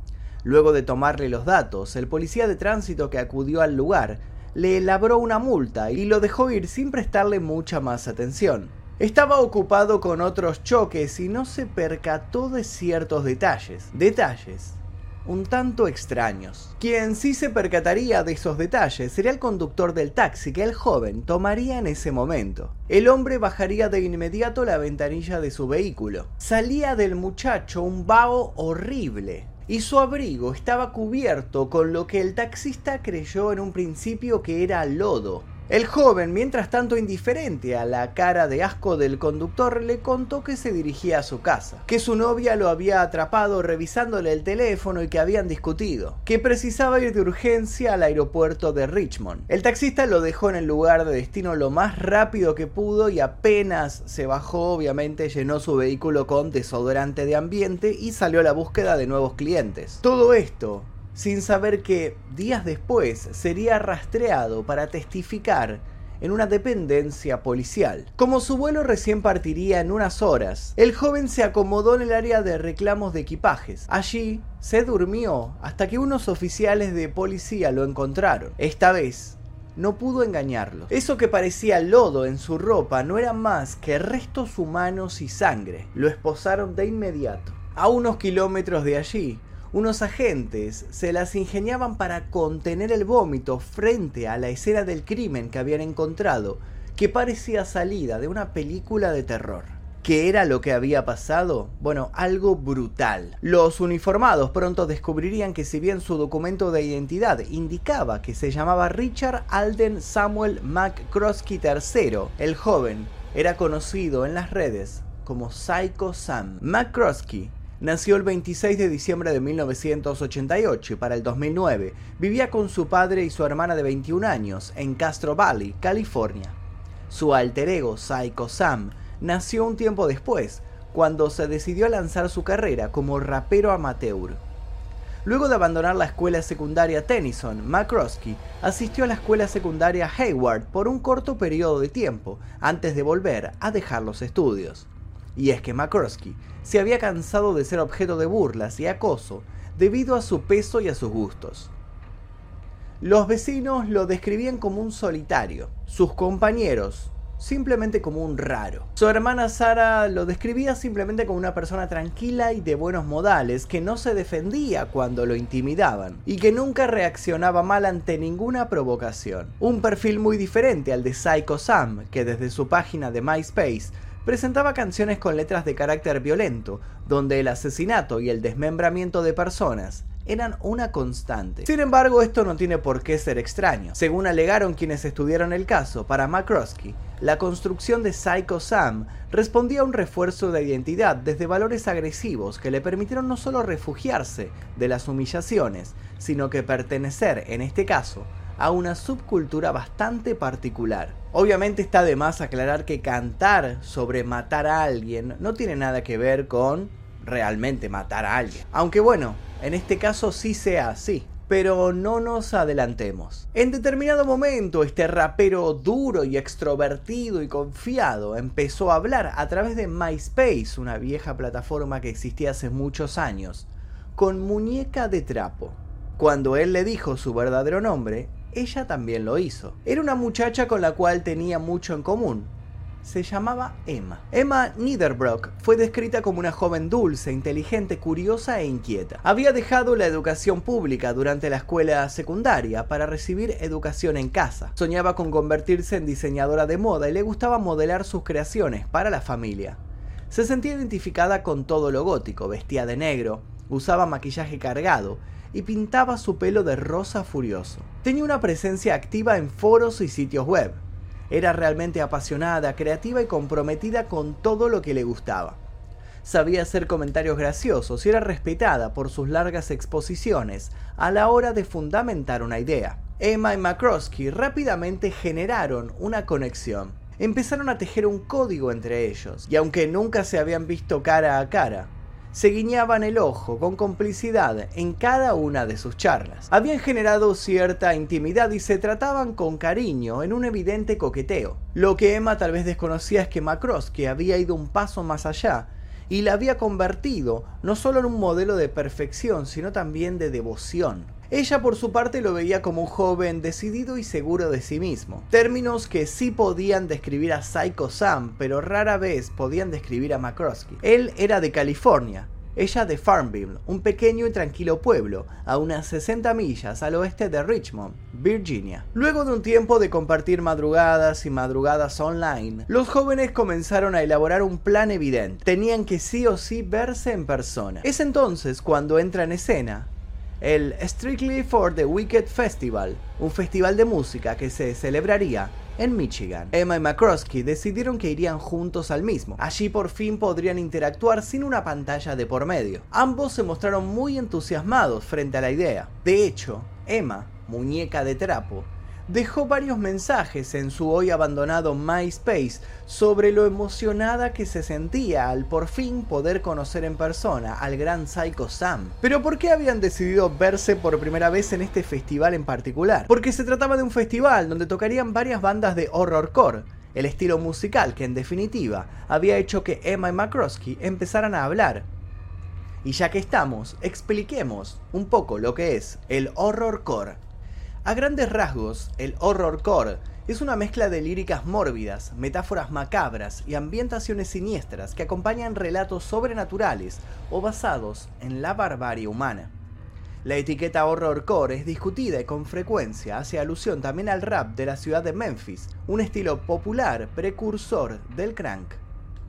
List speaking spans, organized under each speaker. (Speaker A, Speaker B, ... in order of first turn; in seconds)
Speaker A: 0.4-126.5, 127.1-134.4, 135.2-151.7, 153.0-232.5, 233.0-249.8, 250.3-265.6, 266.2-371.9, 372.8-377.2, 377.8-389.5, 390.2-398.8